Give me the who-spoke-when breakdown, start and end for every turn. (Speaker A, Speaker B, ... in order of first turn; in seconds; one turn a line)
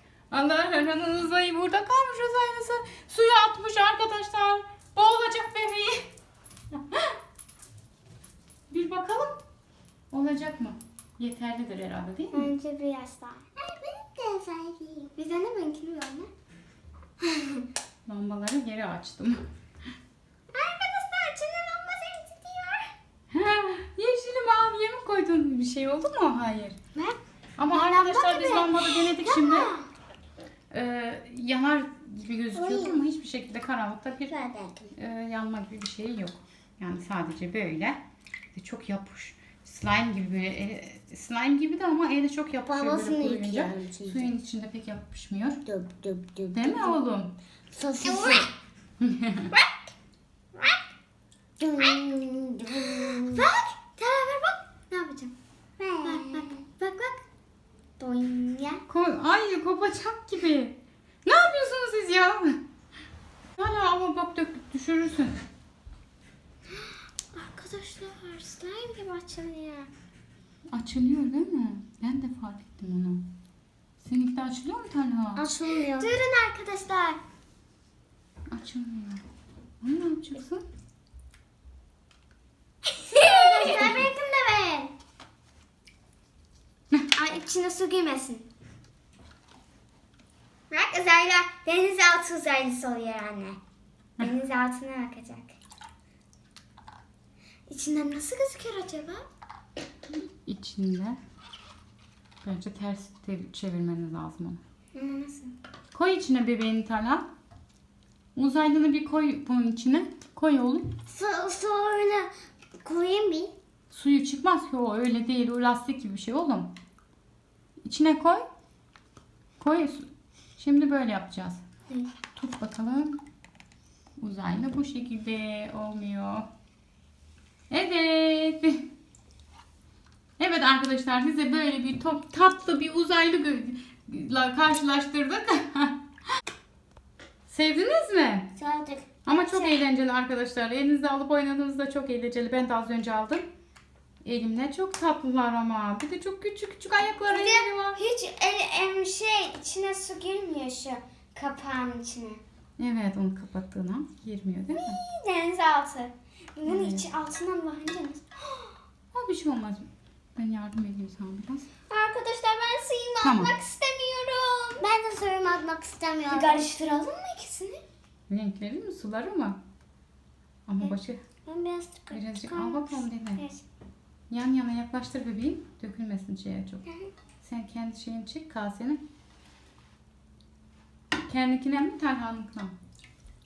Speaker A: 0.3-6.1
Speaker A: 6.7-7.2
Speaker A: 8.7-9.4
Speaker A: 10.1-12.5
Speaker B: 12.3-13.5
Speaker C: 13.6-15.1
Speaker B: 15.2-16.3
Speaker A: 18.1-19.4
Speaker B: 20.5-22.9
Speaker A: 23.3-26.8
Speaker A: 27.6-29.7
Speaker B: 27.7-29.8
Speaker A: 30.7-34.3
Speaker C: 32.5-33.0
Speaker C: 34.3-34.9
Speaker A: 35.0-38.0
Speaker A: 38.5-45.6
Speaker C: 42.7-44.3
Speaker C: 45.7-47.0
Speaker A: 46.5-47.3
Speaker C: 47.7-48.5
Speaker B: 48.0-48.5
Speaker A: 49.0-49.5
Speaker C: 51.6-53.6
Speaker B: 52.9-55.3
Speaker C: 55.8-56.7
Speaker B: 56.0-57.1
Speaker B: 58.0-58.8
Speaker A: 58.9-62.6
Speaker A: 63.6-65.4
Speaker B: 67.3-69.9
Speaker A: 70.7-73.2
Speaker A: 74.0-75.5
Speaker C: 75.4-76.2
Speaker B: 75.7-77.2
Speaker A: 78.5-79.2
Speaker A: 79.8-80.6
Speaker B: 83.0-84.9
Speaker C: 83.1-83.9
Speaker A: 83.7-84.0
Speaker B: 87.2-88.5
Speaker B: 90.7-93.6
Speaker B: 94.2-95.5
Speaker B: 97.7-99.3
Speaker A: 100.5-101.2
Speaker A: 102.4-104.6
Speaker B: 105.0-105.5
Speaker A: 105.9-107.2
Speaker A: 108.4-110.9
Speaker C: 111.1-112.3
Speaker C: 112.8-113.5
Speaker A: 113.9-116.7
Speaker A: 117.8-118.5
Speaker A: 119.6-120.0
Speaker A: 120.6-121.6
Speaker A: 122.4-123.2
Speaker A: 124.2-126.5
Speaker A: 127.7-128.8
Speaker A: 130.4-136.0
Speaker A: 137.5-138.5
Speaker C: 138.6-139.1
Speaker A: 139.2-143.5
Speaker B: 139.3-139.8
Speaker A: 144.2-147.9
Speaker B: 147.2-152.4
Speaker A: 152.8-155.0
Speaker B: 154.7-158.2
Speaker A: 156.7-157.1
Speaker A: 159.1-161.7
Speaker B: 161.9-164.9
Speaker A: 163.2-163.5
Speaker C: 164.8-166.7
Speaker B: 166.3-167.8
Speaker A: 168.3-169.6
Speaker A: 170.7-171.2
Speaker C: 171.5-172.9
Speaker A: 172.1-173.4
Speaker A: 174.3-176.8
Speaker A: 177.4-179.0
Speaker A: 181.3-182.7